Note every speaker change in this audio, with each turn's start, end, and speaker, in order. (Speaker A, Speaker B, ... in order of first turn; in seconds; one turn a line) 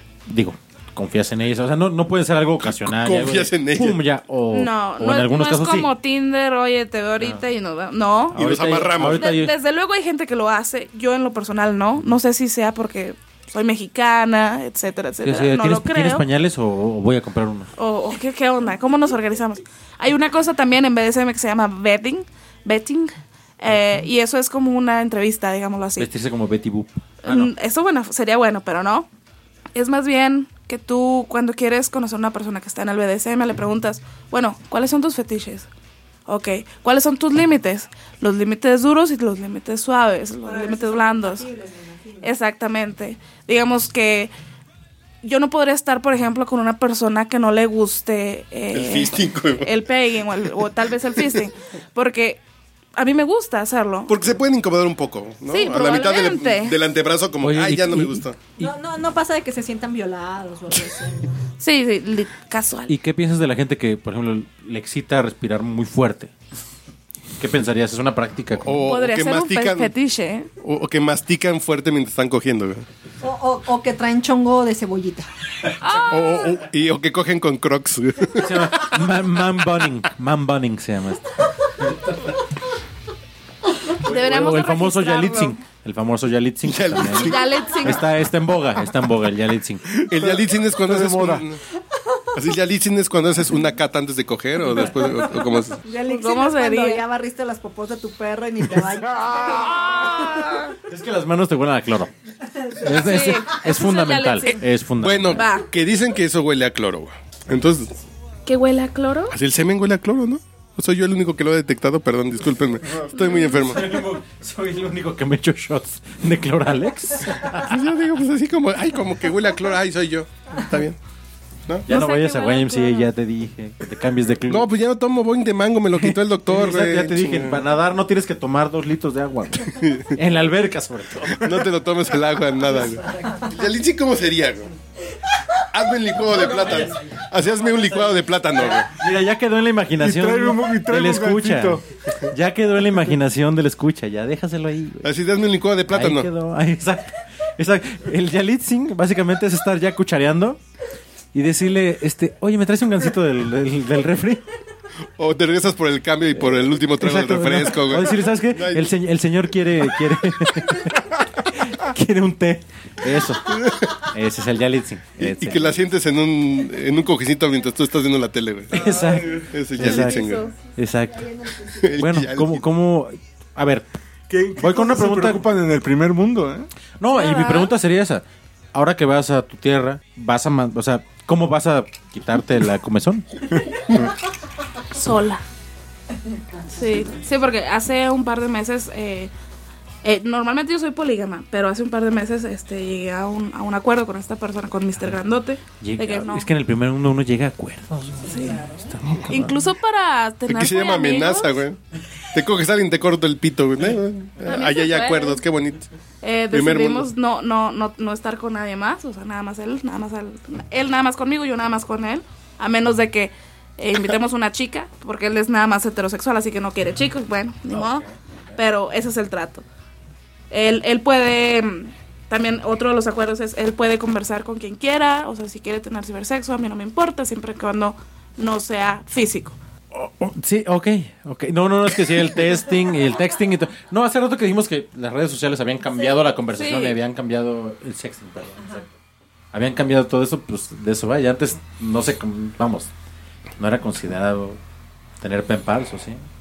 Speaker A: 0.2-5.9
Speaker B: 2.6-4.0
Speaker C: 4.5-8.4
Speaker A: 8.3-9.5
Speaker B: 8.3-9.3
Speaker C: 9.2-16.2
Speaker A: 15.2-17.7
Speaker C: 17.8-26.1
Speaker A: 26.0-27.5
Speaker C: 27.2-29.1
Speaker C: 29.7-35.7
Speaker C: 36.3-41.5
Speaker D: 40.4-42.3
Speaker C: 42.2-44.3
Speaker C: 45.2-52.4
Speaker B: 48.7-49.7
Speaker C: 53.0-54.1
Speaker B: 54.1-58.4
Speaker C: 55.5-56.8
Speaker A: 57.4-58.7
Speaker D: 58.6-61.4
Speaker C: 61.6-62.9
Speaker A: 62.9-66.3
Speaker A: 67.4-68.8
Speaker B: 68.6-69.9
Speaker C: 68.8-70.5
Speaker B: 70.6-72.8
Speaker D: 73.2-75.3
Speaker C: 75.8-76.6
Speaker B: 76.1-78.9
Speaker A: 78.4-82.3
Speaker C: 84.0-85.6
Speaker A: 84.0-89.8
Speaker B: 86.6-87.5
Speaker C: 87.2-88.0
Speaker B: 90.1-91.6
Speaker E: 90.1-91.4
Speaker B: 92.3-95.8
Speaker D: 95.8-100.3
Speaker C: 96.1-97.0
Speaker C: 99.9-100.7
Speaker A: 100.9-102.1
Speaker D: 102.6-102.9
Speaker A: 102.8-105.4
Speaker C: 103.0-104.6
Speaker B: 105.0-108.0
Speaker C: 105.3-105.7
Speaker C: 108.5-109.3
Speaker B: 109.3-113.9
Speaker C: 113.2-113.7
Speaker A: 113.7-117.7
Speaker B: 117.6-121.0
Speaker A: 121.8-124.7
Speaker C: 121.9-123.1
Speaker B: 124.5-127.6
Speaker A: 125.9-131.4
Speaker B: 129.7-130.1
Speaker B: 131.4-134.7
Speaker B: 135.7-138.9
Speaker A: 136.3-145.1
Speaker E: 140.0-141.8
Speaker B: 145.0-146.3
Speaker A: 145.9-150.6
Speaker A: 151.3-154.4
Speaker B: 155.2-158.9
Speaker A: 156.3-165.8
Speaker B: 163.5-163.9
Speaker B: 165.2-168.9
Speaker A: 168.7-171.3
Speaker E: 168.9-169.5
Speaker B: 169.5-170.5
Speaker C: 169.9-170.4
Speaker D: 171.2-171.8
Speaker B: 171.7-172.6
Speaker A: 172.0-173.8
Speaker E: 174.3-176.7
Speaker A: 174.6-175.4
Speaker A: 177.0-183.3
Speaker D: 177.1-177.7
Speaker C: 184.9-185.4
Speaker C: 186.7-189.3
Speaker C: 190.0-196.5
Speaker A: 195.8-199.6
Speaker C: 198.3-198.7
Speaker C: 199.3-201.6
Speaker B: 200.5-201.8
Speaker B: 202.3-205.9
Speaker C: 204.4-205.4
Speaker C: 206.2-218.0
Speaker B: 206.5-207.1
Speaker A: 217.7-218.0
Speaker C: 218.6-219.6
Speaker C: 220.5-229.6
Speaker A: 229.9-238.9
Speaker C: 236.5-237.0
Speaker A: 239.5-242.9
Speaker A: 243.6-244.6
Speaker A: 245.2-246.2